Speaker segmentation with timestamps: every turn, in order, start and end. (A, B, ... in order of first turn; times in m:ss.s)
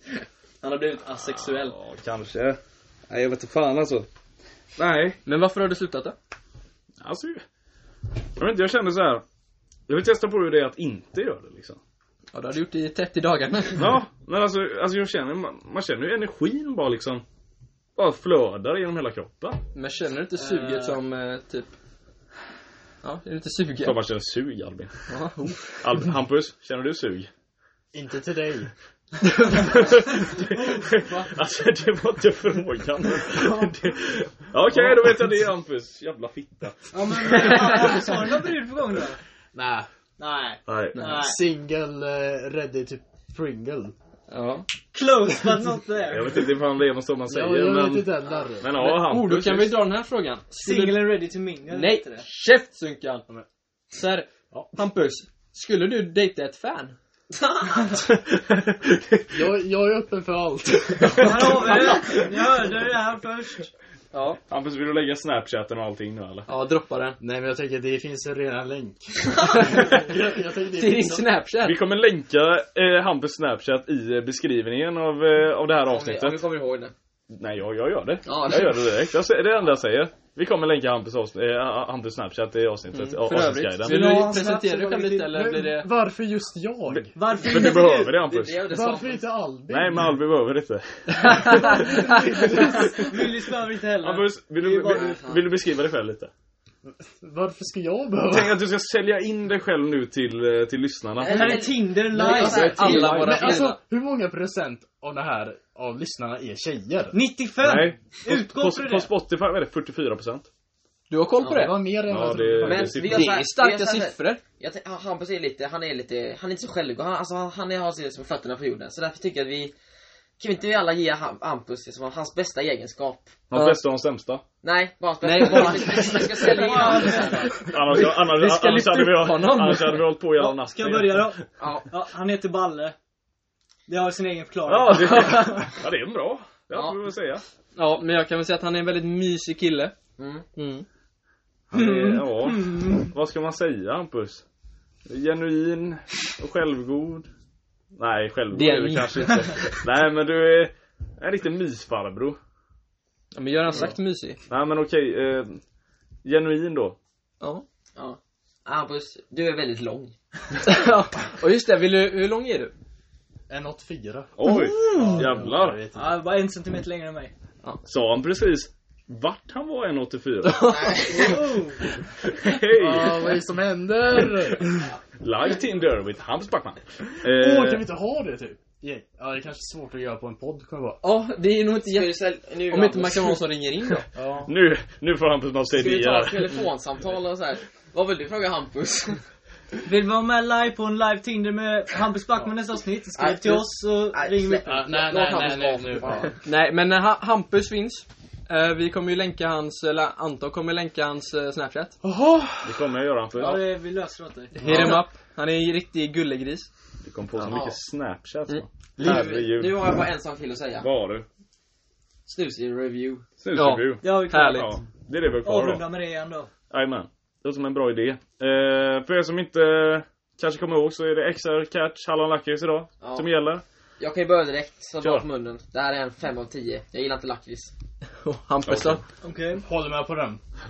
0:00.6-0:01.8 A
0:01.1-0:04.1 B
0:04.8-0:05.2 B
0:05.2-0:06.1 A
0:07.0-0:07.4 B
0:08.4-0:09.2 B
0:09.9-0:11.8 B
0:12.3-0:13.9 A
0:13.8-0:17.2 B
0:18.0-0:19.6 B
0:19.7-0:21.7 A
0:20.4-0:21.0 C
0:23.0-0:24.0 A
0:23.8-0:24.9 B
0:25.1-0:25.8 A
0:25.8-0:27.3 B
0:27.9-0:28.7 D
0:29.3-0:29.7 A
0:29.5-0:37.9 B
0:30.3-0:31.3 C
0:36.9-0:39.2 C
0:37.3-0:38.0 A
0:39.5-0:39.9 D
0:40.2-0:41.4 C
0:40.6-0:41.0 B
0:40.9-0:41.2 A
0:41.0-0:43.9 D
0:44.3-0:44.6 A
0:44.9-0:46.4 C
0:46.1-0:49.8 B
0:47.3-0:48.7 D
0:48.8-0:53.2 A
0:50.6-0:52.2 C
0:53.9-0:57.0 A
0:57.3-0:58.0 E
0:58.0-0:59.4 B
0:59.3-1:01.9 D
1:01.0-1:02.4 B
1:01.2-1:03.7 C
1:04.1-1:04.4 A
1:04.5-1:06.5 B
1:06.5-1:07.2 A
1:07.2-1:11.2 D
1:09.6-1:09.9 A
1:10.7-1:11.8 A
1:11.6-1:16.4 B
1:15.9-1:16.9 E
1:17.3-1:23.9 B
1:18.2-1:18.9 E
1:22.9-1:25.9 A
1:23.8-1:25.1 C
1:23.9-1:27.1 D
1:26.9-1:28.6 B
1:27.1-1:28.2 C
1:28.2-1:29.2 E
1:28.7-1:30.2 D
1:29.7-1:33.3 B
1:31.4-1:33.0 D
1:31.8-1:35.2 C
1:34.0-1:36.3 B
1:34.9-1:35.4 E
1:36.8-1:38.6 D
1:38.3-1:41.6 B
1:41.2-1:43.8 E
1:41.2-1:43.0 C
1:42.2-1:47.2 D
1:42.2-1:43.8 A
1:47.1-1:49.1 C
1:47.6-1:50.5 B
1:51.1-1:51.8 A
1:51.4-1:51.7 E
1:51.5-1:53.0 D
1:52.1-1:53.3 B
1:52.6-1:59.7 E
1:53.0-1:54.4 A
2:00.4-2:03.3 E
2:03.5-2:04.4 B
2:03.5-2:03.8 A
2:04.6-2:07.5 E
2:05.2-2:06.1 A
2:05.4-2:06.3 D
2:05.8-2:07.7 C
2:07.0-2:10.1 A
2:07.6-2:11.4 B
2:10.3-2:12.9 C
2:11.6-2:11.8 E
2:13.9-2:15.6 C
2:14.6-2:17.4 B
2:16.7-2:17.0 E
2:17.8-2:19.9 A
2:20.2-2:20.4 E
2:20.6-2:20.8 A
2:21.7-2:24.4 B
2:21.8-2:22.2 A
2:22.4-2:23.1 C
2:25.1-2:27.3 B
2:28.0-2:32.4 B
2:28.5-2:29.6 A
2:33.3-2:34.4 A
2:34.5-2:35.6 B
2:36.2-2:37.0 B
2:38.0-2:40.1 E
2:40.6-2:42.7 A
2:43.5-2:46.2 D
2:44.4-2:45.8 B
2:44.4-2:45.3 A
2:45.9-2:47.3 C
2:47.8-2:50.7 B
2:50.4-2:51.2 A
2:50.6-2:51.4 E
2:51.1-2:51.9 C
2:52.3-2:53.4 B
2:52.7-2:54.9 D
2:55.2-2:57.8 B
2:57.2-3:01.0 D
3:01.0-3:04.0 A
3:01.8-3:03.4 E
3:04.1-3:04.5 D
3:04.4-3:06.6 B
3:05.7-3:09.2 E
3:09.8-3:14.9 C
3:13.1-3:16.4 E
3:14.6-3:16.2 D
3:16.4-3:22.0 A
3:22.0-3:22.9 D
3:22.6-3:23.6 B
3:23.4-3:24.9 C
3:24.6-3:26.7 A
3:24.6-3:25.0 E
3:27.0-3:29.8 B
3:27.4-3:27.8 E
3:28.5-3:29.3 A
3:29.0-3:30.9 E
3:30.8-3:31.2 B
3:32.3-3:33.2 E
3:33.4-3:35.8 B
3:33.6-3:34.7 A
3:34.0-3:34.8 C
3:35.4-3:36.5 C
3:36.7-3:43.6 B
3:43.0-3:43.3 E
3:44.0-3:47.7 E
3:48.2-3:49.0 A
3:48.6-3:49.0 B
3:49.2-3:49.6 C
3:49.6-3:50.4 D